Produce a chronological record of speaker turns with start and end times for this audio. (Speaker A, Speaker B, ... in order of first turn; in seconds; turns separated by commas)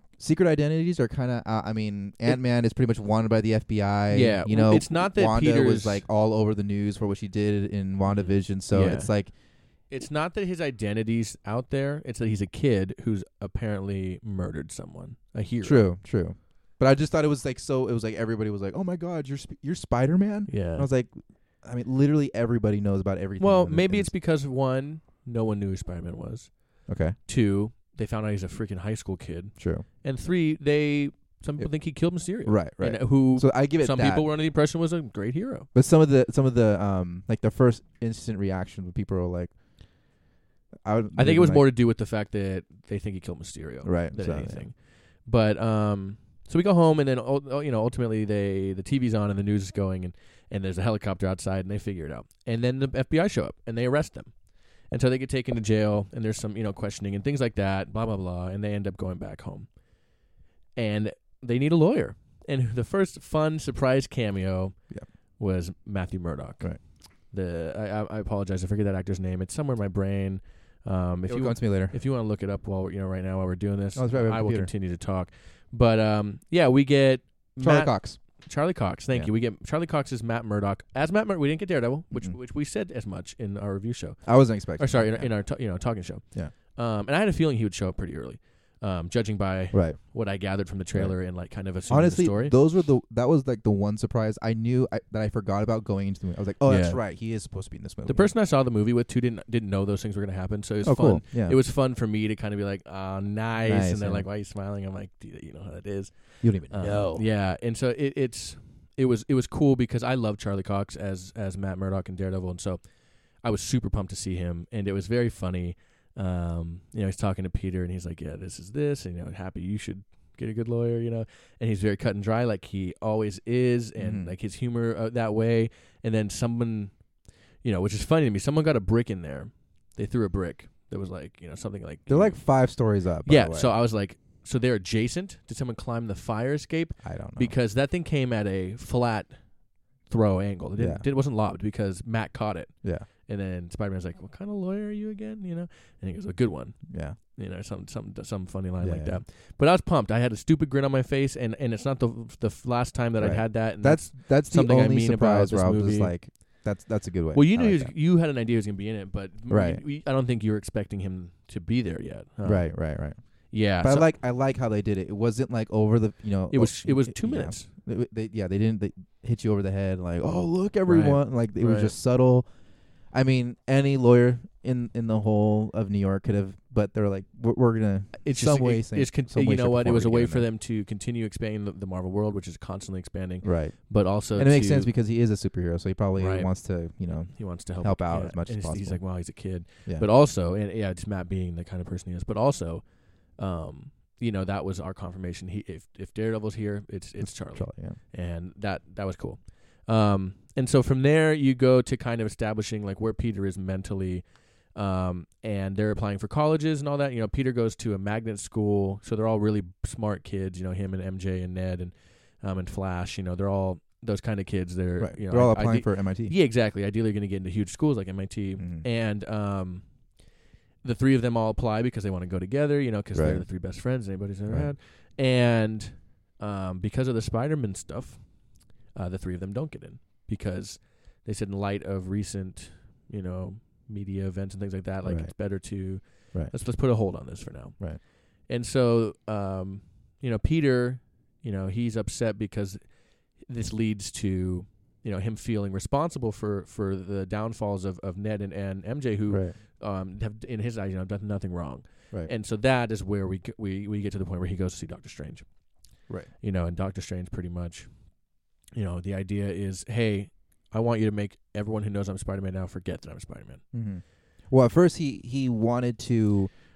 Speaker A: 0.2-9.3, Speaker B: 4.1-6.0, Speaker B: 8.1-9.1, Speaker B: 9.9-15.8, Speaker A: 15.6-24.1, Speaker B: 20.5-20.9, Speaker B: 23.4-35.7, Speaker A: 26.9-27.2, Speaker A: 29.6-29.9, Speaker A: 32.4-34.3, Speaker A: 35.7-39.5, Speaker A: 40.8-41.7, Speaker B: 41.2-54.3, Speaker A: 43.8-44.7, Speaker B: 54.9-59.7, Speaker B: 60.8-64.8, Speaker B: 65.4-92.6, Speaker A: 71.3-72.0, Speaker A: 74.0-74.7, Speaker A: 77.6-78.2, Speaker A: 84.2-85.4, Speaker A: 89.7-90.0, Speaker A: 91.9-98.3, Speaker B: 96.7-97.0, Speaker B: 98.1-112.8, Speaker A: 100.8-101.6, Speaker A: 103.7-104.3, Speaker A: 106.4-107.2, Speaker B: 113.4-127.0, Speaker A: 124.0-124.3, Speaker B: 127.6-132.4, Speaker A: 132.1-133.7, Speaker B: 133.2-139.4, Speaker A: 137.0-137.5, Speaker B: 140.0-156.1, Speaker A: 140.8-141.1, Speaker A: 142.8-143.1, Speaker A: 146.9-147.2, Speaker A: 148.8-149.2, Speaker A: 153.2-157.9, Speaker B: 157.3-162.9, Speaker A: 159.5-159.8, Speaker A: 162.4-172.5, Speaker B: 163.5-164.1, Speaker B: 166.5-167.7, Speaker B: 170.9-171.9, Speaker A: 173.1-180.5, Speaker B: 178.2-184.9, Speaker A: 183.4-189.0, Speaker B: 186.2-186.5, Speaker B: 187.2-219.9, Speaker A: 197.2-198.0, Speaker A: 215.0-216.3, Speaker A: 218.6-218.9, Speaker B: 220.8-255.5, Speaker A: 223.1-223.5, Speaker A: 235.0-236.6, Speaker A: 249.3-249.6, Speaker B: 256.4-258.0, Speaker B: 258.7-263.6, Speaker A: 263.7-266.5